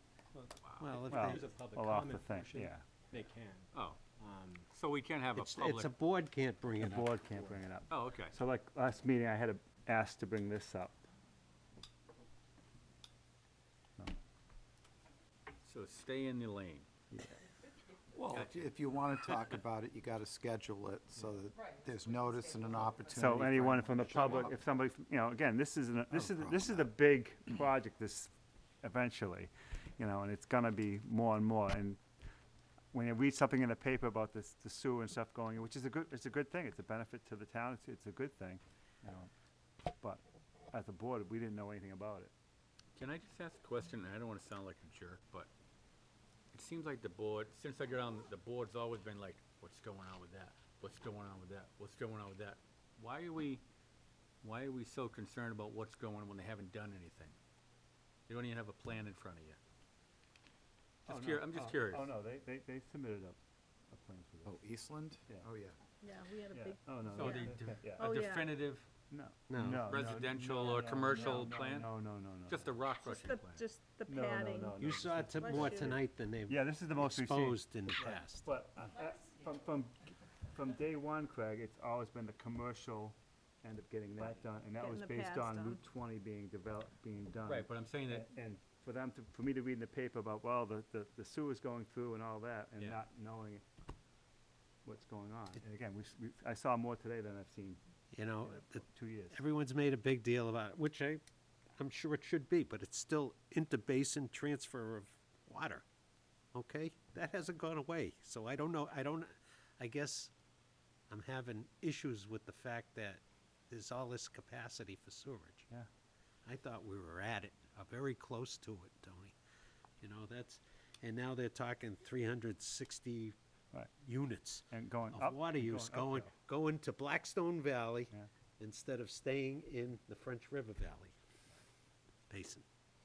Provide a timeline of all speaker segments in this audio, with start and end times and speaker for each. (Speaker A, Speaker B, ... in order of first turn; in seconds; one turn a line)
Speaker A: 0.6-0.9
Speaker B: 0.8-2.7
Speaker C: 1.1-2.8
Speaker A: 3.7-4.0
Speaker A: 4.7-5.9
Speaker B: 5.3-7.2
Speaker C: 6.8-11.0
Speaker A: 7.9-8.3
Speaker A: 15.6-16.9
Speaker D: 18.1-24.6
Speaker A: 18.2-18.6
Speaker A: 19.3-19.5
Speaker C: 23.1-32.0
Speaker C: 32.9-39.3
Speaker C: 40.0-42.3
Speaker A: 42.9-45.5
Speaker A: 46.5-53.6
Speaker A: 54.4-57.3
Speaker A: 58.3-59.6
Speaker A: 61.1-62.1
Speaker C: 61.1-63.4
Speaker C: 63.9-64.6
Speaker D: 64.4-65.8
Speaker E: 66.0-68.5
Speaker C: 66.5-68.1
Speaker A: 67.1-68.9
Speaker C: 69.1-72.7
Speaker B: 69.5-69.9
Speaker A: 69.8-73.7
Speaker E: 73.0-74.8
Speaker C: 74.0-93.6
Speaker B: 74.8-78.5
Speaker E: 75.4-76.0
Speaker E: 84.3-85.8
Speaker A: 87.5-88.3
Speaker C: 94.8-99.4
Speaker B: 98.1-101.2
Speaker B: 101.8-105.8
Speaker B: 106.5-110.3
Speaker B: 111.1-115.7
Speaker B: 116.5-119.3
Speaker B: 120.0-123.3
Speaker B: 124.0-131.1
Speaker C: 124.7-126.3
Speaker B: 132.3-132.6